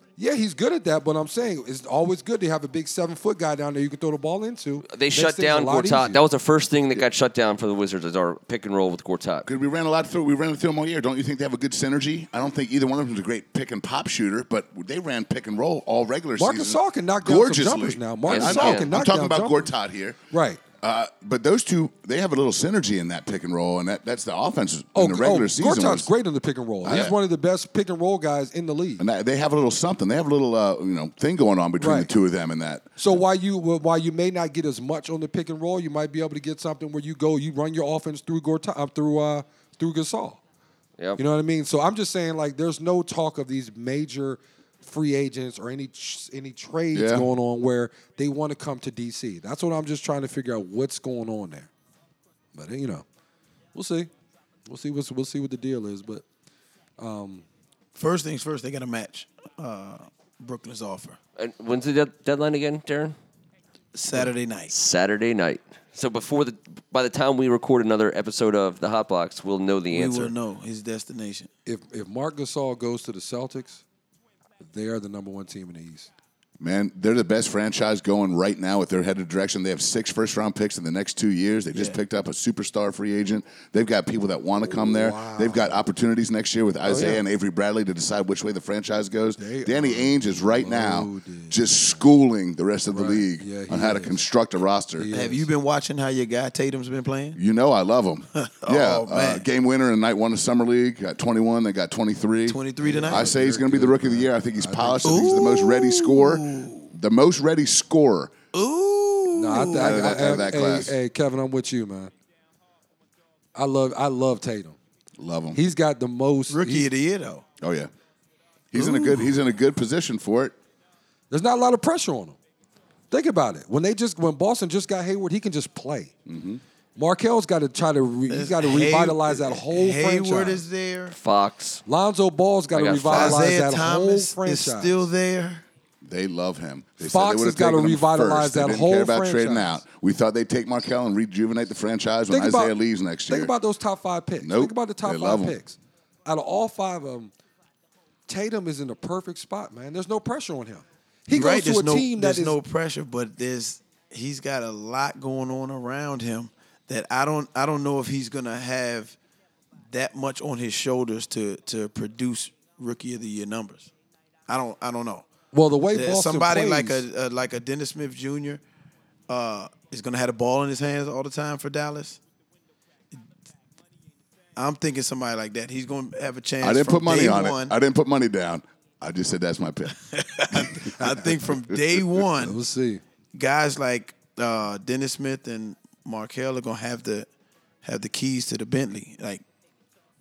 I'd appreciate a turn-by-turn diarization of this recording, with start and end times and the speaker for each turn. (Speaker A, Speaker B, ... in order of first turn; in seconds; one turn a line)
Speaker A: 0.2-6.2
Speaker B: 4.9-9.5
Speaker C: 9.5-20.2
Speaker A: 16.4-19.7
Speaker B: 18.3-18.9
Speaker A: 20.3-20.6
Speaker C: 20.8-26.1
Speaker A: 24.9-29.0
Speaker C: 26.8-27.1
Speaker C: 29.0-33.0
Speaker A: 31.8-32.1
Speaker A: 33.0-40.4
Speaker A: 41.2-51.7
Speaker C: 46.9-47.3
Speaker A: 52.5-53.0
Speaker A: 53.7-54.1
Speaker A: 54.7-56.2
Speaker A: 57.0-57.5
Speaker D: 57.9-61.2
Speaker B: 61.4-63.2
Speaker D: 63.9-64.7
Speaker B: 64.1-70.3
Speaker D: 69.9-71.5
Speaker A: 71.7-73.8
Speaker A: 74.6-76.1
Speaker C: 76.6-95.1
Speaker A: 84.7-85.8
Speaker A: 86.9-87.2
Speaker A: 89.4-92.0
Speaker A: 92.9-94.2
Speaker A: 95.0-95.5
Speaker D: 95.1-97.4
Speaker C: 97.4-108.3
Speaker D: 98.3-99.5
Speaker D: 102.5-103.3
Speaker A: 102.8-105.3
Speaker D: 105.0-106.9
Speaker D: 108.5-110.3
Speaker A: 109.3-112.1
Speaker C: 109.8-111.0
Speaker A: 113.5-114.8
Speaker C: 115.2-115.6
Speaker A: 115.5-116.9
Speaker D: 116.5-117.5
Speaker C: 117.6-117.9
Speaker C: 118.7-120.5
Speaker D: 118.8-119.3
Speaker A: 121.3-122.4
Speaker A: 123.1-126.1
Speaker C: 126.3-126.6
Speaker A: 127.0-130.6
Speaker D: 128.3-131.2
Speaker B: 131.2-131.8
Speaker A: 131.9-135.1
Speaker B: 132.7-133.6
Speaker D: 133.1-135.6
Speaker C: 136.0-143.5
Speaker A: 137.0-139.8
Speaker A: 142.3-142.8
Speaker A: 143.3-147.3
Speaker C: 144.4-145.6
Speaker A: 148.3-152.6
Speaker D: 151.3-159.2
Speaker D: 159.9-163.9
Speaker D: 164.5-165.3
Speaker A: 165.5-167.1
Speaker D: 165.9-168.6
Speaker D: 169.3-172.2
Speaker D: 174.6-177.8
Speaker C: 176.6-180.0
Speaker D: 179.9-182.6
Speaker C: 180.5-182.0
Speaker A: 182.4-183.0
Speaker D: 183.3-187.3
Speaker D: 187.8-189.4